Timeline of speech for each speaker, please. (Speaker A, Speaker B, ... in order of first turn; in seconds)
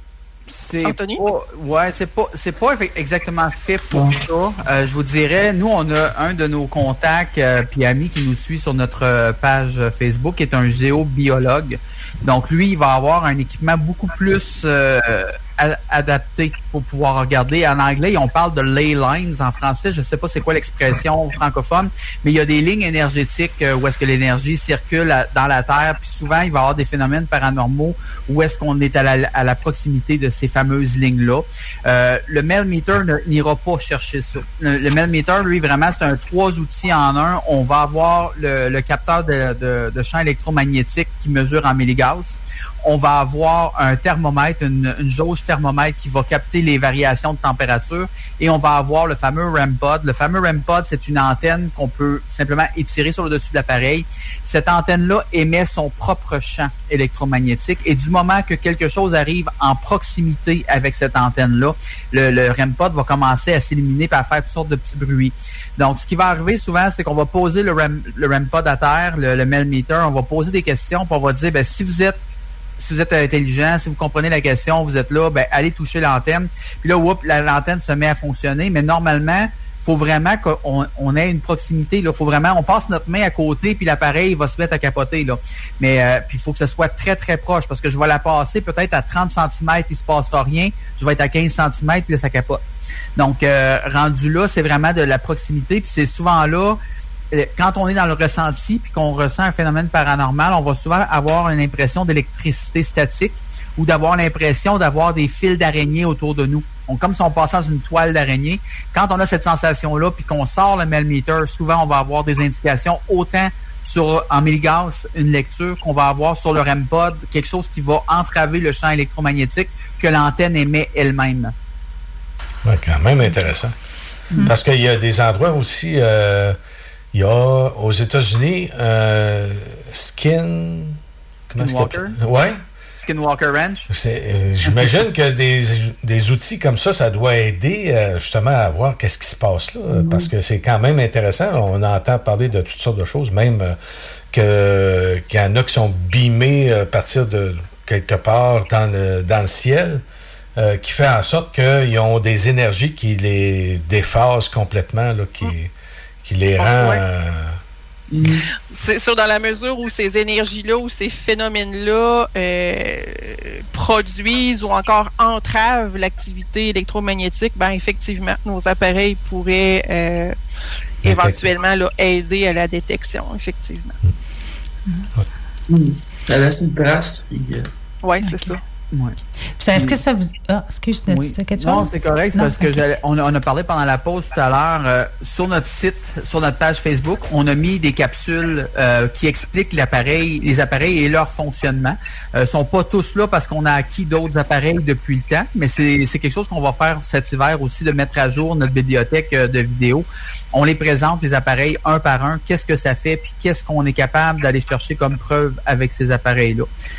Speaker A: 0.5-72.2, 72.8-92.6, 93.2-96.8, 97.3-121.5, 131.5-132.2, 132.9-133.9, 134.6-134.9, 178.9-179.2, 181.1-206.7
Speaker B: 0.8-1.2, 156.6-157.0, 158.7-170.3, 171.0-173.9, 178.0-178.6
Speaker C: 3.9-4.2, 139.9-140.3, 158.1-158.4, 175.7-177.7
Speaker D: 122.6-123.7, 124.4-126.6, 127.1-131.0, 131.5-132.6, 133.9-143.8, 144.3-150.0, 150.6-155.7, 156.2-157.6, 171.0-171.4
Speaker E: 178.2-178.6, 179.6-182.8